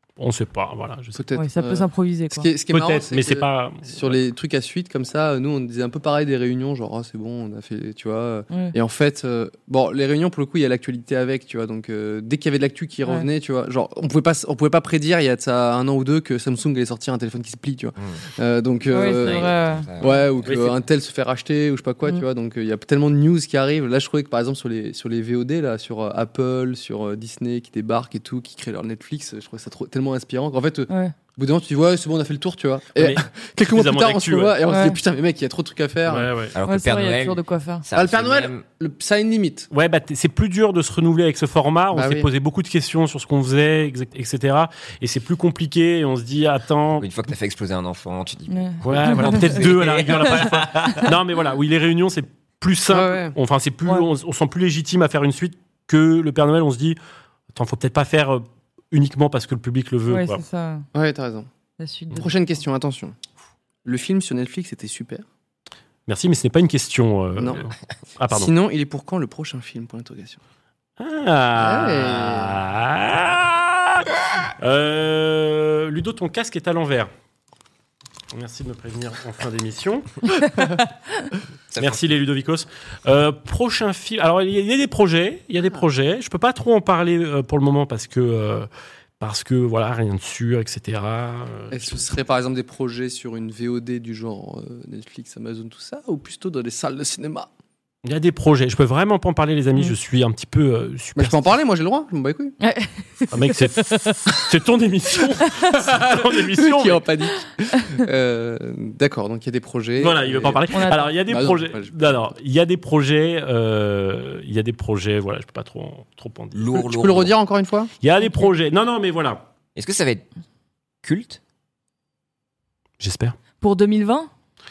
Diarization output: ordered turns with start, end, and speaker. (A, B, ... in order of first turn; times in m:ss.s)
0:00.2-0:01.2 A
0:01.2-0:36.3 B
0:01.4-0:02.5 C
0:02.7-0:04.2 A
0:18.9-0:20.2 C
0:19.1-0:20.3 D
0:20.4-0:20.8 A
0:30.9-0:31.1 C
0:33.0-0:34.6 A
0:34.7-0:35.0 C
0:36.1-0:36.6 A
0:36.5-0:38.6 D
0:36.6-0:37.9 C
0:38.0-0:39.7 B
0:39.7-0:47.1 A
0:41.9-0:42.3 B
0:47.0-0:51.1 D
0:48.5-0:49.5 C
0:48.8-0:57.0 A
0:52.9-0:53.4 B
0:57.5-1:00.4 A
1:00.1-1:00.9 C
1:00.9-1:01.5 B
1:01.8-1:02.3 C
1:02.2-1:03.2 B
1:03.8-1:05.3 B
1:06.1-1:08.5 A
1:07.4-1:07.6 B
1:08.3-1:10.4 B
1:11.0-1:17.1 A
1:11.6-1:12.5 B
1:18.3-1:20.0 A
1:21.7-1:22.1 D
1:21.8-1:28.7 A
1:29.2-1:32.0 A
1:31.7-1:37.5 B
1:38.0-1:41.5 A
1:41.2-1:42.6 B
1:42.6-1:44.2 C
1:43.3-1:47.0 A
1:45.7-1:52.2 B
1:50.0-1:56.7 A
1:50.7-1:51.0 C
1:56.5-1:57.3 D
1:56.7-1:57.9 B
1:58.0-1:59.5 A
1:59.8-2:00.3 D
2:01.0-2:01.4 D
2:03.0-2:03.4 A
2:03.6-2:04.3 C